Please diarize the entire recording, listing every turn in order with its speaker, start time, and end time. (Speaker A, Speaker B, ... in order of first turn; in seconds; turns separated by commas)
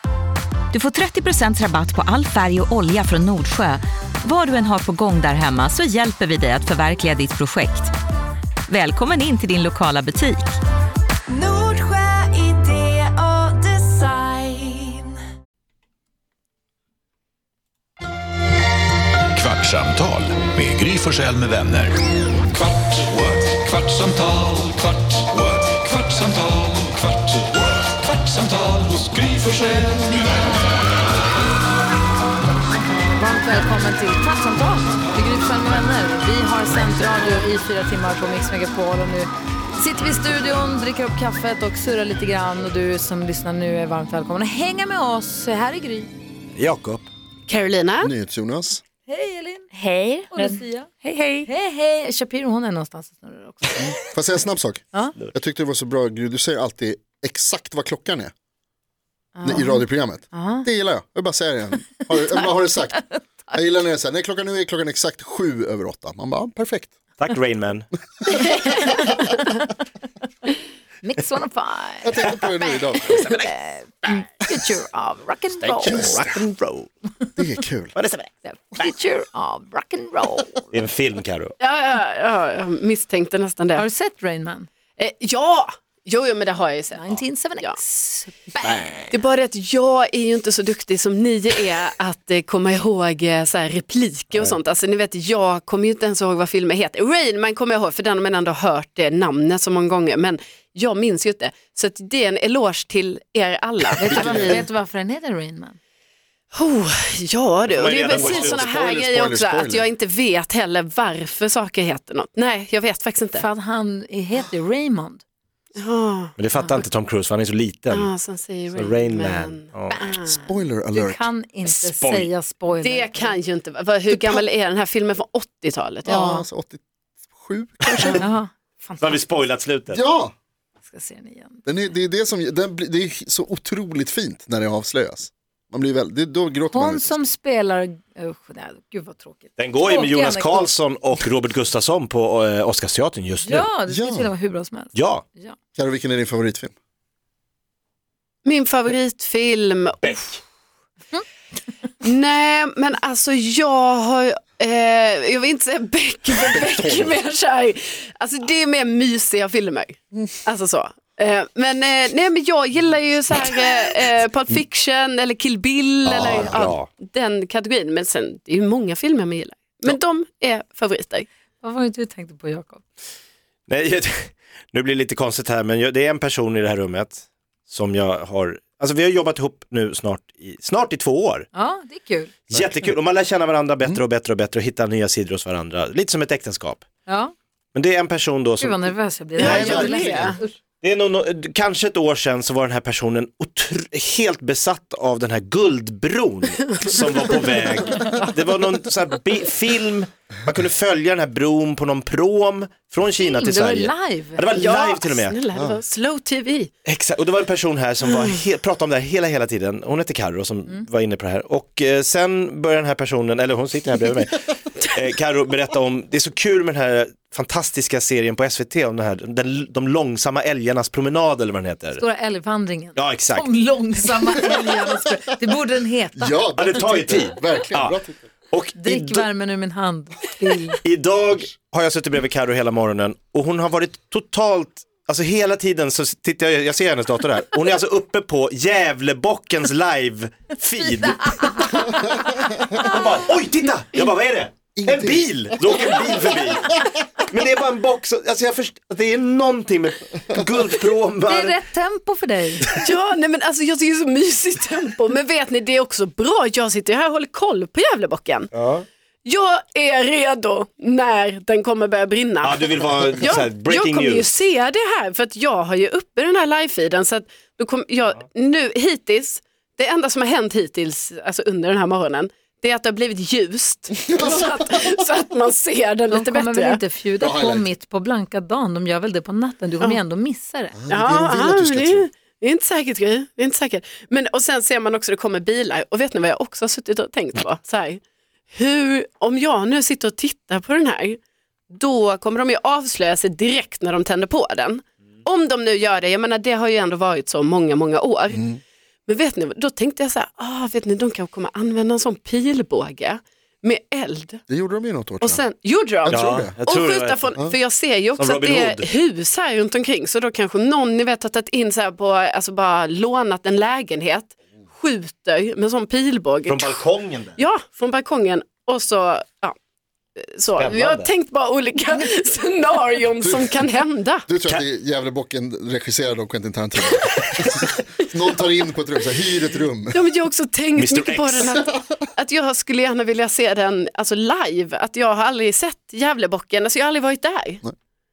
Speaker A: 0.7-7.9, Speaker A: 8.7-10.5, Speaker B: 11.3-15.1, Speaker C: 19.3-22.0, Speaker C: 23.0-24.7, Speaker C: 25.3-25.8, Speaker C: 26.4-26.7, Speaker C: 29.0-29.4, Speaker D: 33.1-46.1, Speaker E: 46.6-47.1, Speaker F: 47.5-48.1, Speaker G: 48.0-48.8, Speaker D: 49.1-49.7, Speaker A: 49.8-51.5, Speaker D: 50.3-54.0, Speaker G: 53.8-58.3, Speaker D: 59.4-60.7, Speaker G: 59.4-67.0, Speaker D: 62.1-63.2, Speaker E: 67.2-67.9, Speaker F: 68.3-69.6, Speaker D: 71.0-72.4, Speaker G: 72.0-73.3, Speaker E: 72.3-74.2, Speaker D: 74.0-76.2, Speaker E: 75.6-76.9, Speaker G: 75.9-76.4, Speaker G: 77.4-77.9, Speaker E: 78.0-78.3, Speaker D: 78.5-80.7, Speaker E: 80.7-81.5, Speaker F: 81.6-83.8, Speaker D: 83.8-84.7, Speaker F: 85.0-87.8, Speaker D: 86.9-88.9, Speaker E: 88.7-89.0, Speaker F: 89.1-104.5, Speaker D: 104.0-105.8, Speaker G: 104.0-104.7, Speaker F: 106.5-113.5, Speaker E: 107.7-108.8, Speaker G: 108.2-109.9, Speaker D: 113.4-115.2, Speaker F: 115.8-116.3, Speaker E: 116.4-118.1, Speaker F: 117.9-120.5, Speaker E: 118.7-120.0, Speaker G: 120.1-121.3, Speaker D: 120.9-123.4, Speaker E: 121.7-122.3, Speaker F: 122.8-126.2, Speaker D: 124.1-124.4, Speaker D: 126.1-126.5, Speaker G: 126.1-126.8, Speaker G: 127.3-128.3, Speaker D: 128.2-129.2, Speaker E: 129.0-130.0, Speaker G: 129.9-130.3, Speaker D: 130.9-131.7, Speaker G: 131.7-137.2, Speaker D: 136.7-140.7, Speaker E: 139.6-143.7, Speaker D: 143.4-145.6, Speaker G: 143.9-144.3, Speaker E: 144.9-145.2, Speaker G: 145.8-146.7, Speaker F: 148.4-150.4, Speaker F: 152.0-171.3, Speaker G: 156.5-157.2, Speaker E: 166.1-166.9, Speaker G: 166.3-166.7, Speaker D: 171.6-172.8, Speaker E: 173.7-181.5, Speaker D: 181.5-182.3, Speaker E: 182.5-186.8, Speaker D: 187.1-187.3, Speaker E: 187.8-189.8, Speaker D: 188.6-190.6, Speaker F: 189.4-190.4, Speaker G: 189.4-190.4, Speaker E: 190.8-205.4, Speaker D: 203.2-204.4, Speaker F: 204.6-206.7, Speaker E: 206.9-222.0, Speaker D: 222.0-226.3, Speaker E: 223.0-223.5, Speaker G: 226.2-228.2, Speaker E: 226.6-228.0, Speaker E: 228.5-229.3, Speaker D: 228.8-230.8, Speaker E: 230.8-242.0, Speaker D: 240.8-242.3, Speaker E: 242.8-251.6, Speaker G: 244.8-245.9, Speaker D: 251.3-252.7, Speaker F: 252.7-258.5, Speaker E: 258.5-258.9, Speaker F: 259.2-276.8, Speaker E: 262.4-264.3, Speaker D: 276.1-280.8, Speaker G: 277.2-277.7, Speaker G: 280.8-282.1, Speaker F: 280.9-298.5, Speaker G: 298.3-298.6, Speaker F: 299.1-304.4, Speaker G: 304.5-305.4, Speaker F: 305.2-319.6, Speaker G: 306.1-306.6, Speaker E: 306.1-307.4, Speaker E: 308.2-308.9, Speaker E: 316.5-317.4, Speaker F: 320.2-324.3, Speaker E: 320.6-321.1, Speaker G: 323.2-323.6, Speaker G: 324.3-330.1, Speaker F: 326.9-327.7, Speaker F: 329.9-337.6, Speaker E: 330.8-331.6